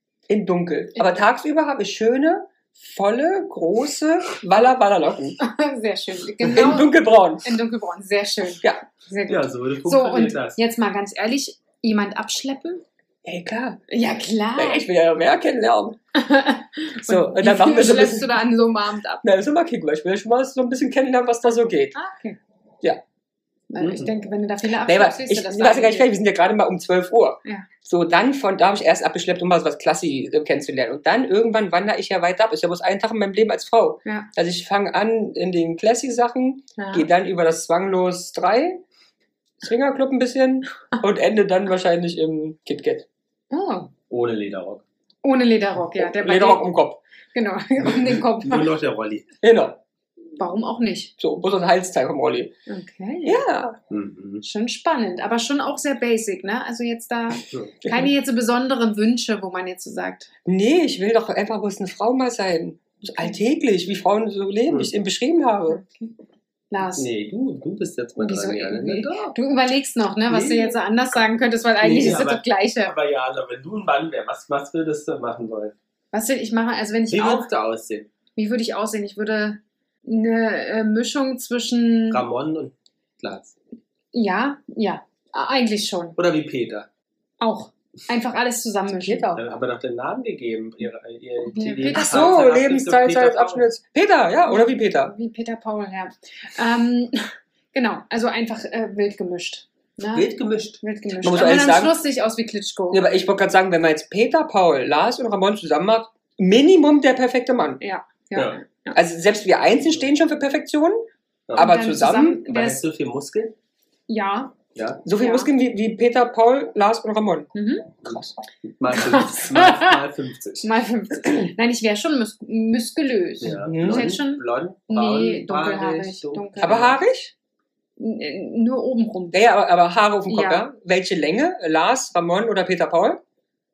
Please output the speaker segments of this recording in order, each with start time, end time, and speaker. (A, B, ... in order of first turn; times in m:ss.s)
0:00.3-0:05.4 A
0:05.4-0:12.8 B
0:06.4-0:07.5 A
0:09.3-0:10.6 C
0:13.2-0:13.8 A
0:13.9-0:14.8 B
0:14.6-0:16.0 A
0:16.1-0:19.2 B
0:17.0-0:18.4 A
0:19.2-0:21.9 A
0:21.9-0:22.4 B
0:23.7-0:26.1 B
0:24.8-0:38.8 A
0:36.8-0:37.1 B
0:39.6-0:43.0 A
0:43.5-0:43.9 B
0:44.1-0:44.8 C
0:45.2-0:46.6 B
0:46.0-0:47.0 A
0:47.3-0:48.7 B
0:47.9-0:49.2 C
0:49.4-0:49.8 A
0:50.4-0:51.1 B
0:51.2-0:52.6 A
0:52.7-0:53.4 B
0:53.2-0:53.8 A
0:53.9-0:54.4 C
0:54.4-1:00.3 B
0:57.8-0:58.1 A
1:00.4-1:05.8 A
1:05.7-1:06.1 B
1:06.7-1:07.1 B
1:06.9-1:09.4 C
1:08.2-1:12.9 B
1:10.3-1:10.8 C
1:11.8-1:15.7 C
1:16.1-1:17.5 B
1:17.1-1:18.1 C
1:18.3-1:22.2 B
1:22.1-1:23.5 C
1:24.1-1:26.2 B
1:26.2-1:26.9 C
1:27.4-1:29.4 B
1:29.0-1:29.3 A
1:29.3-1:33.7 C
1:31.5-1:32.3 B
1:31.9-1:35.1 A
1:34.5-1:43.0 B
1:40.1-1:40.8 C
1:41.2-1:42.0 A
1:42.9-1:47.8 A
1:47.8-1:49.0 B
1:48.3-1:48.6 C
1:48.9-1:52.4 A
1:51.5-1:51.7 C
1:51.6-1:52.8 B
1:52.4-1:53.5 C
1:54.1-1:54.6 B
1:54.7-1:55.0 C
1:55.0-1:57.5 A
1:55.1-1:55.5 B
1:57.5-1:58.0 B
1:58.0-1:58.4 A
1:58.7-2:00.7 C
1:58.9-2:00.0 B
2:00.6-2:06.9 B
2:03.4-2:07.0 C
2:03.5-2:04.1 A
2:06.6-2:07.3 A
2:08.0-2:09.4 B
2:09.3-2:13.2 A
2:10.3-2:10.7 B